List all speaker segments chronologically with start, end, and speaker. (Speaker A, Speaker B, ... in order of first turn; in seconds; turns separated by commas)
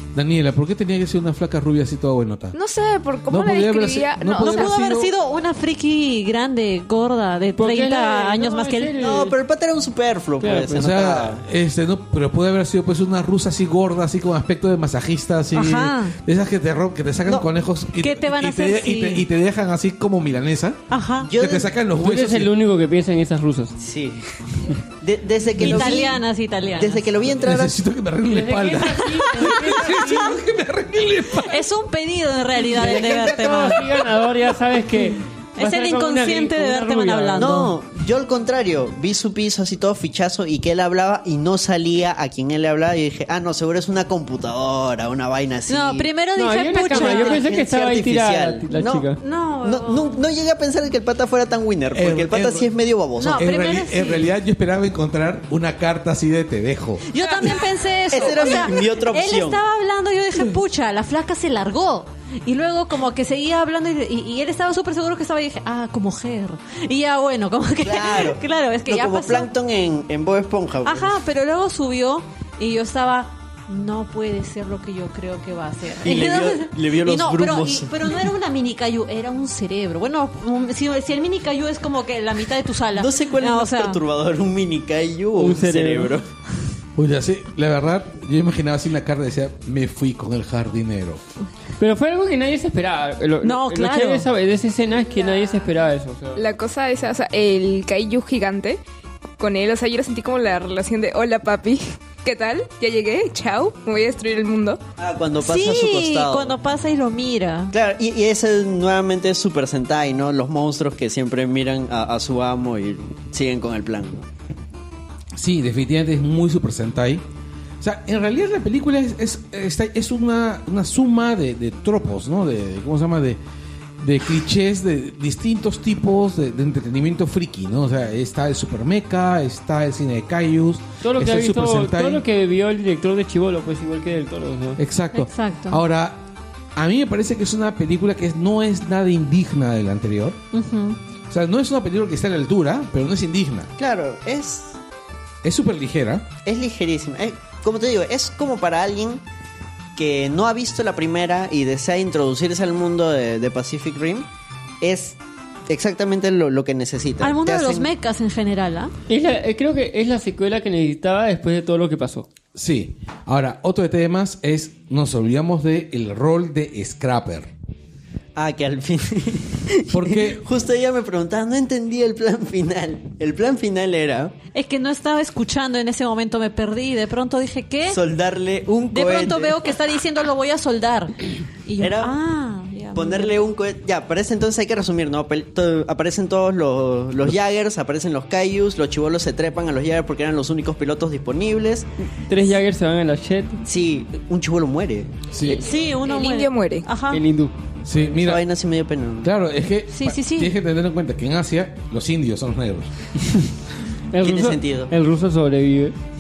Speaker A: 0.1-2.6, Speaker B: 2.5-4.8, Speaker A: 3.3-5.1, Speaker C: 4.4-8.9, Speaker D: 7.6-9.4, Speaker E: 9.0-11.4, Speaker D: 10.4-10.9, Speaker A: 10.7-20.8, Speaker C: 15.5-16.2, Speaker C: 18.0-19.3, Speaker C: 20.9-21.3, Speaker E: 21.2-21.7, Speaker A: 21.3-22.5, Speaker D: 22.0-23.8, Speaker E: 23.8-26.2, Speaker C: 25.6-27.1, Speaker A: 25.6-25.9, Speaker E: 26.8-27.8, Speaker A: 27.3-31.7, Speaker D: 28.2-30.4, Speaker C: 31.4-34.0, Speaker D: 32.6-37.6, Speaker C: 35.6-37.8, Speaker E: 37.4-46.1, Speaker C: 45.7-47.5, Speaker D: 46.4-49.2, Speaker E: 46.9-49.1, Speaker C: 49.2-50.2, Speaker E: 49.6-53.5, Speaker A: 51.9-52.7, Speaker C: 53.2-54.3, Speaker A: 53.4-57.1, Speaker C: 57.1-69.5, Speaker E: 58.1-59.6, Speaker E: 67.8-71.1, Speaker C: 70.8-84.0, Speaker E: 76.0-77.9, Speaker E: 83.0-86.3, Speaker D: 85.4-86.2, Speaker A: 87.0-91.2, Speaker D: 91.8-96.4, Speaker C: 93.4-94.3, Speaker B: 96.3-98.8, Speaker B: 99.4-104.8, Speaker E: 105.0-106.5, Speaker C: 105.4-107.7, Speaker E: 107.7-114.3, Speaker A: 115.3-117.2, Speaker A: 117.8-123.4, Speaker A: 124.0-132.2, Speaker D: 131.0-134.8, Speaker A: 134.8-136.2, Speaker C: 135.1-135.8, Speaker A: 136.8-140.4, Speaker C: 140.5-141.0, Speaker A: 141.3-143.7, Speaker E: 143.8-144.8, Speaker A: 145.4-146.3, Speaker E: 146.4-149.2, Speaker E: 150.0-154.3, Speaker E: 154.8-157.9, Speaker C: 157.2-158.9, Speaker D: 159.1-162.3, Speaker A: 162.6-167.5, Speaker E: 168.4-174.4, Speaker A: 169.9-170.4, Speaker C: 174.5-178.0, Speaker E: 177.9-179.6, Speaker C: 178.9-183.4, Speaker E: 181.8-182.1, Speaker E: 182.9-191.9, Speaker D: 192.1-193.6, Speaker E: 193.6-195.2, Speaker A: 195.3-195.7, Speaker C: 195.5-197.2, Speaker B: 196.0-196.9, Speaker D: 197.1-197.5, Speaker A: 197.8-198.5, Speaker E: 198.1-199.3, Speaker A: 199.2-202.9, Speaker C: 199.9-200.5, Speaker D: 204.1-206.0, Speaker E: 204.2-204.9